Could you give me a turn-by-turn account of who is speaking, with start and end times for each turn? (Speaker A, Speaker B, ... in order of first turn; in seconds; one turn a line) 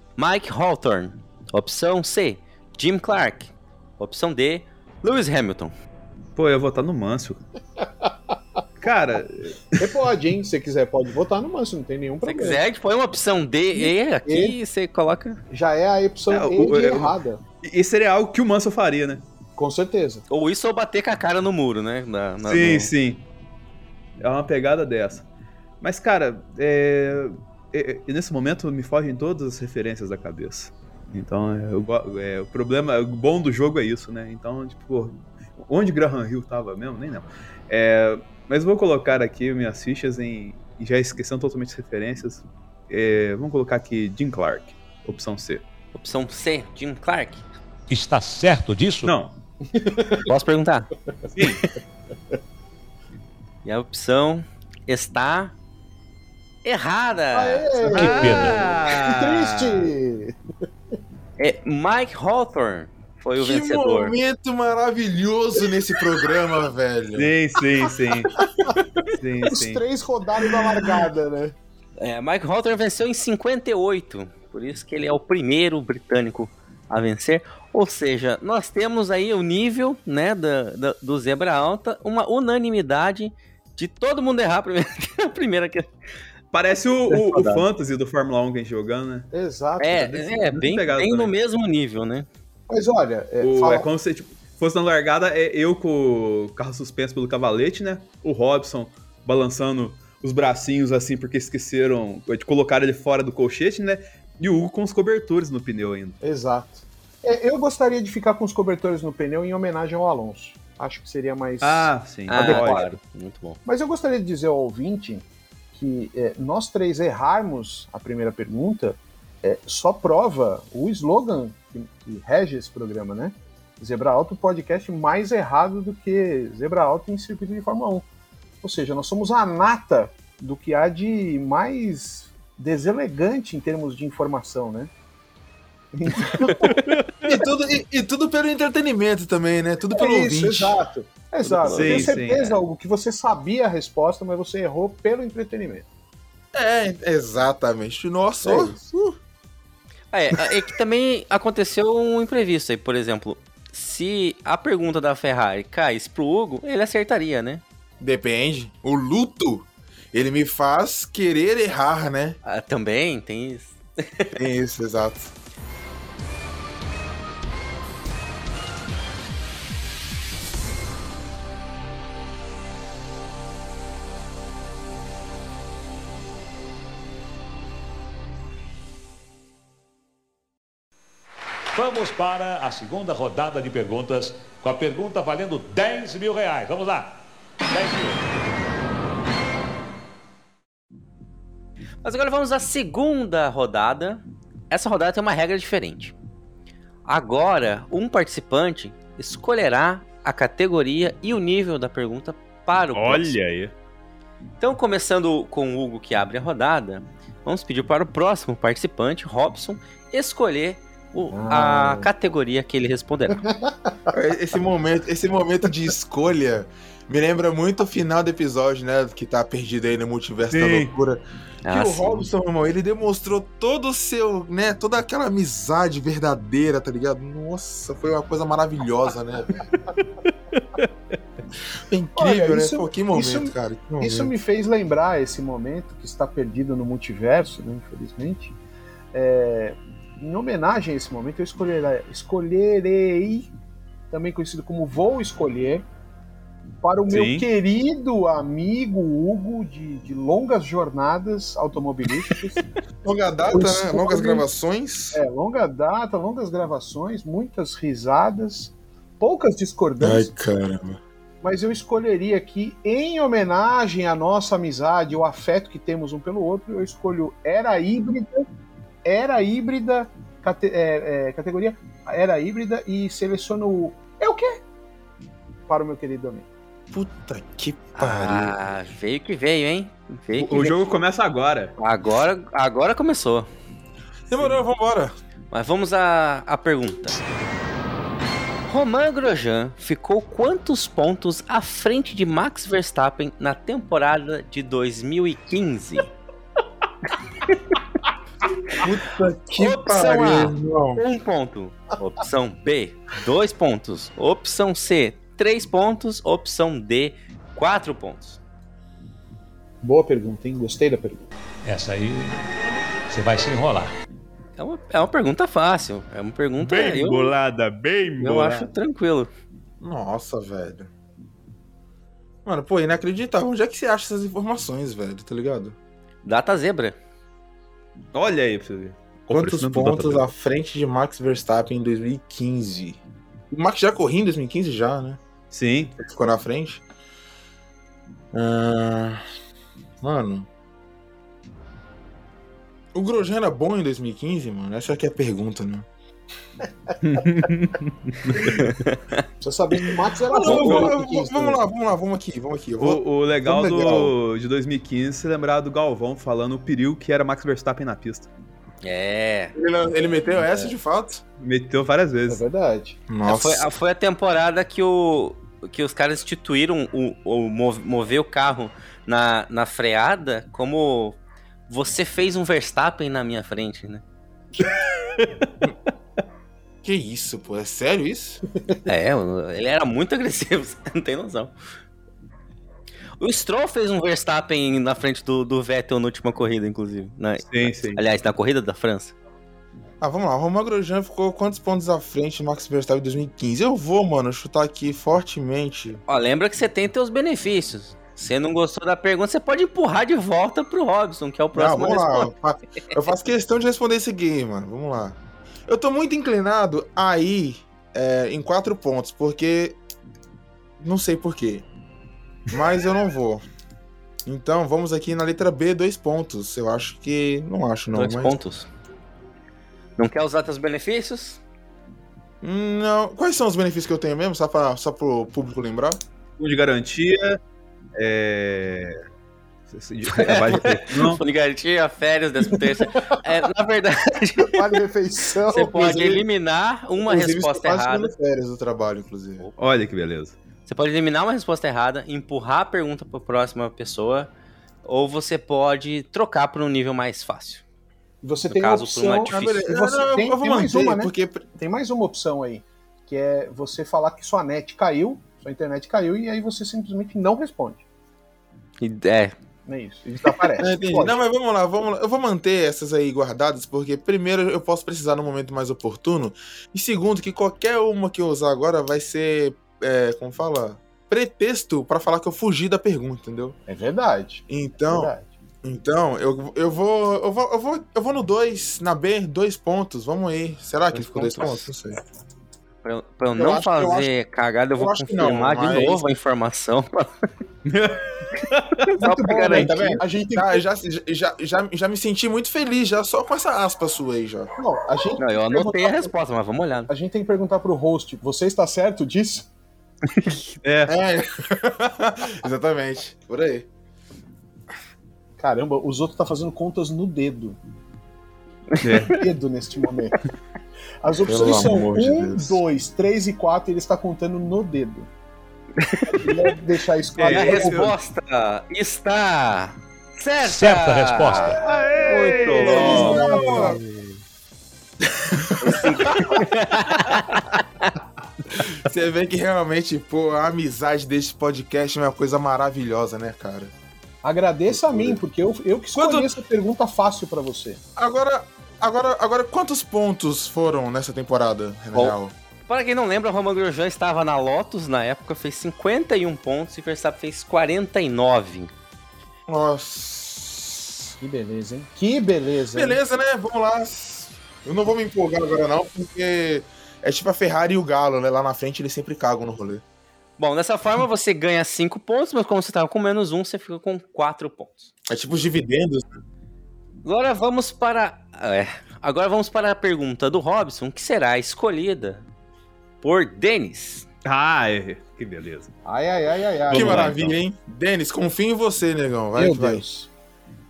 Speaker A: 0.2-5.7
Speaker B: 6.3-7.4
Speaker C: 7.8-8.3
Speaker B: 8.8-10.0
Speaker C: 9.8-12.6
Speaker A: 12.2-15.4
Speaker C: 13.7-14.6
Speaker C: 15.5-17.4
Speaker B: 16.3-19.2
Speaker C: 19.6-20.2
Speaker A: 20.3-22.9
Speaker B: 22.4-23.2
Speaker B: 24.2-25.2
Speaker B: 25.8-45.6
Speaker A: 45.9-47.4
Speaker D: 47.9-49.1
Speaker B: 49.0-49.3
Speaker C: 49.7-50.3
Speaker A: 50.3-50.9
Speaker B: 51.3-51.7
Speaker A: 53.6-55.5
Speaker A: 56.6-58.2
Speaker C: 57.3-60.4
Speaker D: 57.9-58.7
Speaker B: 57.9-59.9
Speaker A: 61.4-64.2
Speaker E: 63.4-67.3
Speaker B: 67.2-68.3
Speaker C: 68.4-68.8
Speaker B: 69.1-69.8
Speaker C: 69.5-71.5
Speaker A: 72.0-85.9
Speaker B: 86.5-89.3
Speaker C: 87.1-87.6
Speaker C: 89.3-90.1
Speaker A: 89.8-92.3
Speaker B: 90.0-91.3
Speaker C: 92.7-93.9
Speaker B: 93.4-106.2
Speaker C: 106.2-112.9
Speaker B: 111.6-113.0
Speaker A: 112.3-113.6
Speaker C: 113.6-128.1
Speaker C: 128.6-134.9
Speaker C: 135.9-136.9
Speaker B: 136.7-137.0
Speaker E: 137.2-140.8
Speaker C: 139.9-145.8
Speaker A: 141.4-142.1
Speaker B: 141.6-142.6
Speaker E: 146.5-148.9
Speaker C: 148.4-149.1
Speaker A: 150.1-157.6
Speaker E: 158.0-162.4
Speaker A: 162.4-164.4
Speaker E: 164.3-165.3
Speaker D: 181.7-187.2
Speaker D: 187.7-188.2
Speaker A: 192.0-196.1
Speaker A: 197.1-203.3
Speaker B: 202.9-203.7
Speaker A: 204.6-213.4
Speaker C: 211.3-212.1
Speaker C: 213.4-213.9
Speaker E: 214.1-229.6
Speaker B: 220.5-220.9
Speaker A: 221.6-222.2
Speaker E: 231.9-234.3
Speaker C: 232.2-238.5
Speaker C: 239.1-243.5
Speaker C: 244.1-245.9
Speaker C: 246.8-252.6
Speaker B: 247.1-247.4
Speaker E: 253.0-255.2
Speaker C: 253.5-254.4
Speaker C: 255.1-260.3
Speaker E: 260.0-261.0
Speaker C: 261.4-268.5
Speaker C: 269.0-274.6
Speaker C: 275.7-276.5
Speaker E: 276.9-278.6
Speaker A: 277.9-280.5
Speaker B: 280.4-281.7
Speaker A: 281.8-283.5
Speaker E: 284.3-285.1
Speaker A: 285.5-287.2
Speaker A: 288.7-296.1
Speaker E: 298.7-301.0
Speaker A: 299.6-308.4
Speaker C: 309.8-311.3
Speaker D: 311.6-312.4
Speaker D: 313.1-313.9
Speaker A: 314.6-317.3
Speaker D: 316.6-318.1
Speaker B: 316.6-318.7
Speaker A: 318.2-319.3
Speaker E: 319.8-320.9
Speaker E: 322.4-325.8
Speaker A: 326.2-327.0
Speaker B: 328.1-330.3
Speaker E: 329.3-335.2
Speaker B: 335.5-335.9
Speaker E: 336.0-336.8
Speaker E: 338.3-339.2
Speaker E: 340.0-340.5
Speaker E: 342.9-345.9
Speaker B: 347.0-348.6
Speaker A: 348.6-349.2
Speaker C: 349.4-351.6
Speaker E: 350.3-354.1
Speaker A: 350.5-350.8
Speaker B: 352.8-358.3
Speaker A: 358.8-359.5
Speaker E: 359.5-361.2
Speaker B: 361.4-362.4
Speaker C: 362.3-363.0
Speaker E: 363.1-363.7
Speaker A: 363.2-371.2
Speaker A: 371.7-374.0
Speaker E: 376.8-378.4
Speaker A: 378.9-381.5
Speaker A: 383.2-389.1
Speaker B: 387.4-388.0
Speaker E: 390.0-396.0
Speaker A: 396.1-402.3
Speaker E: 401.5-409.8
Speaker E: 410.8-411.6
Speaker E: 412.5-413.4
Speaker E: 414.2-418.4
Speaker A: 417.9-418.7
Speaker A: 420.0-421.4
Speaker E: 422.4-426.0
Speaker B: 426.4-427.4
Speaker B: 427.9-428.9
Speaker B: 429.7-431.2
Speaker A: 430.1-434.6
Speaker C: 432.7-433.1
Speaker C: 434.4-436.1
Speaker A: 435.5-438.1
Speaker E: 435.7-436.2
Speaker E: 437.0-439.5
Speaker B: 439.6-440.4
Speaker A: 440.7-444.3
Speaker A: 444.8-447.6
Speaker C: 448.2-457.8
Speaker A: 448.5-449.6
Speaker E: 449.3-451.4
Speaker A: 458.8-459.3
Speaker C: 459.6-461.2
Speaker E: 460.6-473.6
Speaker C: 473.7-475.3
Speaker E: 474.5-482.0
Speaker A: 480.9-481.7
Speaker A: 482.8-487.1
Speaker E: 483.3-484.1
Speaker E: 484.8-486.0
Speaker B: 487.6-488.8
Speaker A: 488.9-490.0
Speaker C: 489.0-490.6
Speaker E: 489.4-494.5
Speaker C: 494.6-496.1
Speaker A: 495.2-496.9
Speaker C: 496.9-499.5
Speaker B: 500.6-500.9
Speaker E: 500.9-503.7
Speaker C: 505.4-507.6
Speaker B: 508.8-509.2
Speaker C: 509.1-510.2
Speaker C: 511.0-515.1
Speaker E: 511.2-512.6
Speaker C: 516.1-517.9
Speaker B: 517.2-517.9
Speaker A: 517.3-523.2
Speaker D: 520.4-521.6
Speaker B: 521.6-524.1
Speaker C: 522.0-523.8
Speaker E: 522.1-523.8
Speaker A: 525.6-527.9
Speaker E: 528.7-533.7
Speaker C: 534.2-537.8
Speaker E: 534.7-535.2
Speaker E: 535.9-536.3
Speaker E: 538.0-542.3
Speaker A: 542.7-548.7
Speaker E: 549.5-551.1
Speaker C: 551.2-553.0
Speaker E: 552.7-559.8
Speaker A: 560.4-564.9
Speaker E: 565.1-566.0
Speaker A: 567.0-572.2
Speaker A: 573.0-574.0
Speaker B: 574.2-575.7
Speaker C: 575.9-577.2
Speaker B: 576.7-577.3
Speaker E: 576.7-579.8
Speaker C: 579.4-580.1